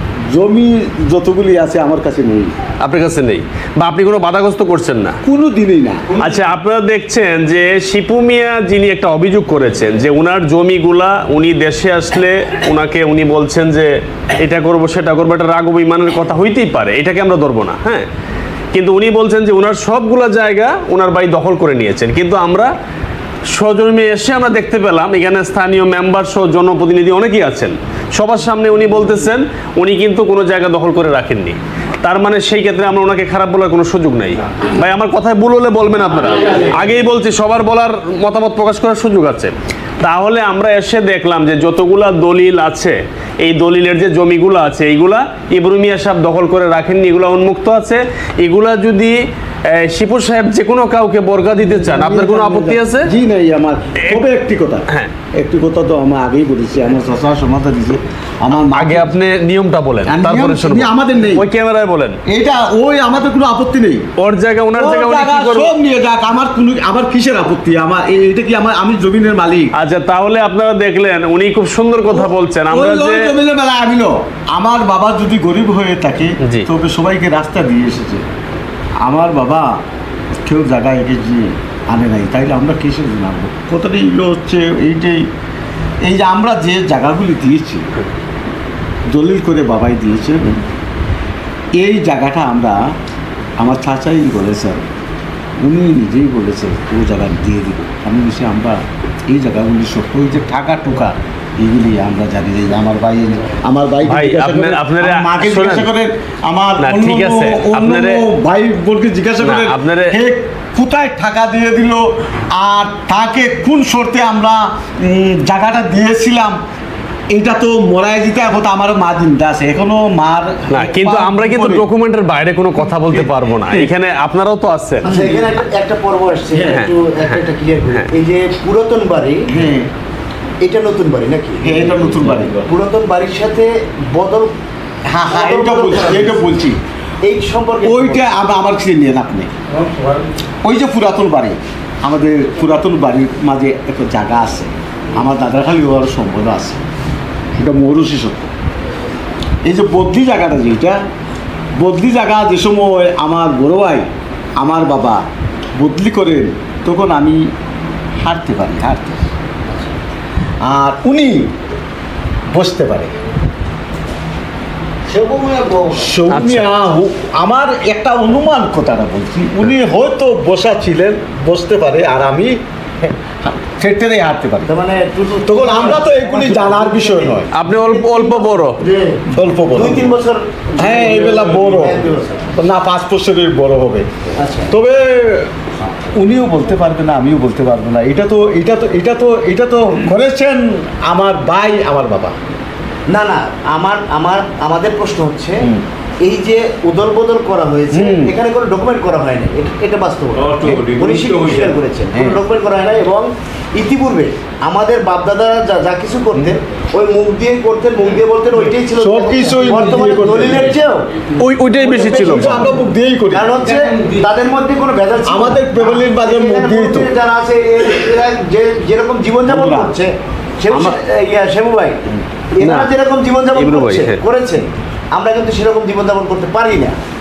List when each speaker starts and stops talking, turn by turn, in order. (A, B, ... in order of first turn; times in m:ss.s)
0:00.3-0:02.6 A
0:02.8-0:05.2 B
0:05.2-0:06.2 A
0:06.2-0:18.1 B
0:18.7-0:22.7 B
0:23.5-0:49.2 B
0:49.7-0:53.1 B
0:51.6-0:59.1 A
0:58.7-1:02.2 B
1:00.1-1:01.5 A
1:02.3-1:04.1 A
1:04.2-1:05.7 B
1:04.7-1:09.7 A
1:09.8-1:13.3 B
1:12.1-1:18.2 A
1:19.0-1:19.8 A
1:20.5-1:25.3 A
1:26.0-1:27.9 A
1:29.1-1:30.6 A
1:31.8-1:32.9 A
1:33.6-1:34.8 A
1:35.6-1:56.6 A
1:44.0-1:45.9 B
1:46.8-1:48.2 B
1:49.4-1:50.2 B
1:57.3-2:01.9 A
2:00.7-2:05.1 B
2:03.1-2:03.9 A
2:05.0-2:09.4 C
2:06.5-2:06.8 A
2:06.7-2:08.1 B
2:09.5-2:09.9 A
2:10.6-2:14.5 C
2:11.6-2:12.6 A
2:15.1-2:16.8 A
2:15.3-2:16.4 C
2:17.2-2:18.3 C
2:17.8-2:19.5 A
2:20.6-2:26.8 A
2:27.6-2:28.5 A
2:29.6-2:31.0 A
2:31.8-2:34.1 A
2:34.6-2:37.5 A
2:38.2-2:39.2 A
2:40.6-2:41.5 A
2:42.5-2:43.2 A
2:45.1-2:46.0 C
2:45.9-2:54.7 A
2:46.3-2:46.7 B
2:54.7-3:02.5 C
2:55.4-2:57.5 A
2:57.5-2:58.8 B
2:59.3-3:00.2 A
3:00.8-3:04.1 A
3:04.4-3:04.7 C
3:04.7-3:05.5 A
3:06.1-3:12.4 A
3:13.1-3:15.7 C
3:16.2-3:31.1 C
3:17.9-3:18.3 A
3:20.6-3:21.3 A
3:29.0-3:30.7 A
3:31.4-3:32.8 B
3:31.8-3:33.5 A
3:33.3-3:47.0 C
3:35.2-3:37.1 A
3:39.5-3:40.0 A
3:40.7-3:41.0 A
3:42.6-3:43.0 B
3:43.5-3:44.2 B